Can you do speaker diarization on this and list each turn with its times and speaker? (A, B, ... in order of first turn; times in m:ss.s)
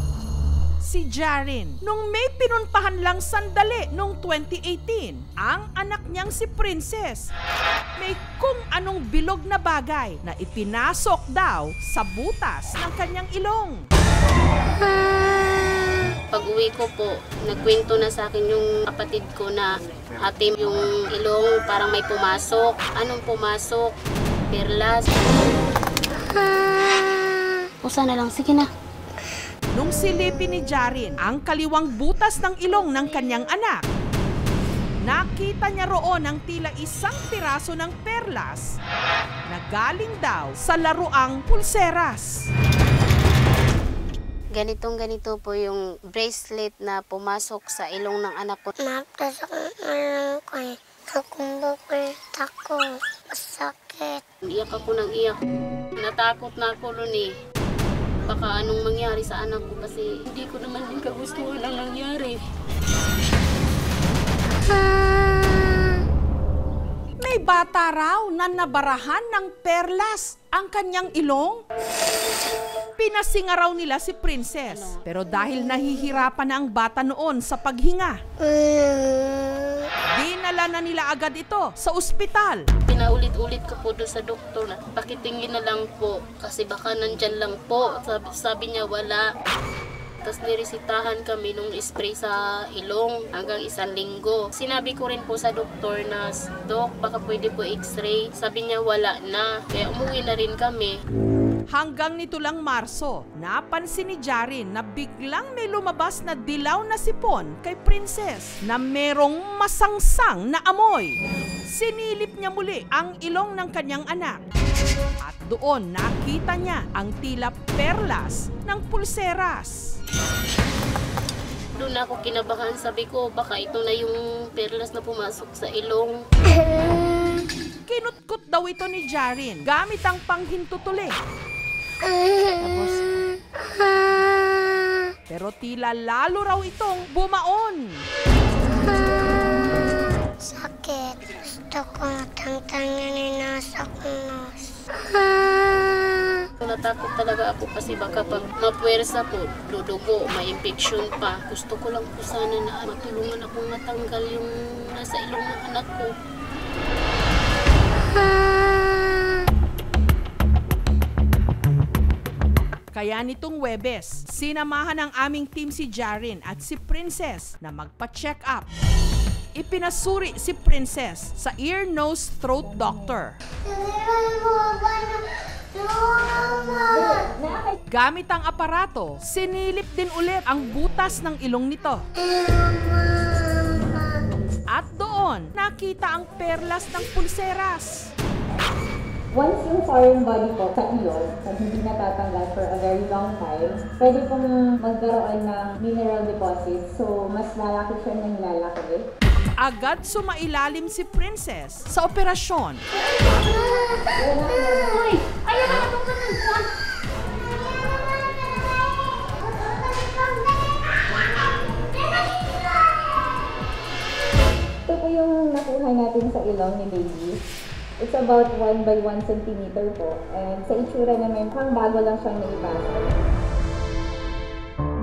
0:00.8-0:07.3 A
0:08.0-0:13.8 A
0:16.3-0:23.9 B
0:24.5-0:25.3 B
0:26.5-0:26.9 B
0:27.8-0:28.7 B
0:29.7-0:33.8 A
0:35.0-0:38.7 A
0:39.5-0:42.5 A
0:44.5-0:48.7 B
0:48.8-0:54.2 C
0:54.5-0:55.4 B
0:56.0-0:57.3 B
0:58.3-1:02.4 B
1:07.2-1:11.6 A
1:13.0-1:18.2 A
1:18.4-1:19.9 C
1:20.0-1:22.7 A
1:22.8-1:29.3 B
1:30.2-1:41.0 B
1:41.7-1:54.4 A
1:55.2-2:00.0 A
2:01.8-2:06.2 B
2:07.9-2:11.2 A
2:12.0-2:15.1 C
2:15.3-2:18.0 A
2:18.7-2:19.1 C
2:20.4-2:26.5 C
2:26.6-2:36.1 B
2:42.9-2:48.7 A
2:49.6-2:53.4 A
2:53.6-2:57.4 C
2:56.9-2:57.8 D
2:57.9-3:02.0 A
3:02.2-3:04.2 C
3:04.7-3:08.1 A
3:09.3-3:19.0 D
3:19.6-3:22.8 A
3:24.1-3:25.2 D
3:25.9-3:26.2 C
3:34.9-3:37.4 D
3:38.0-3:43.2 D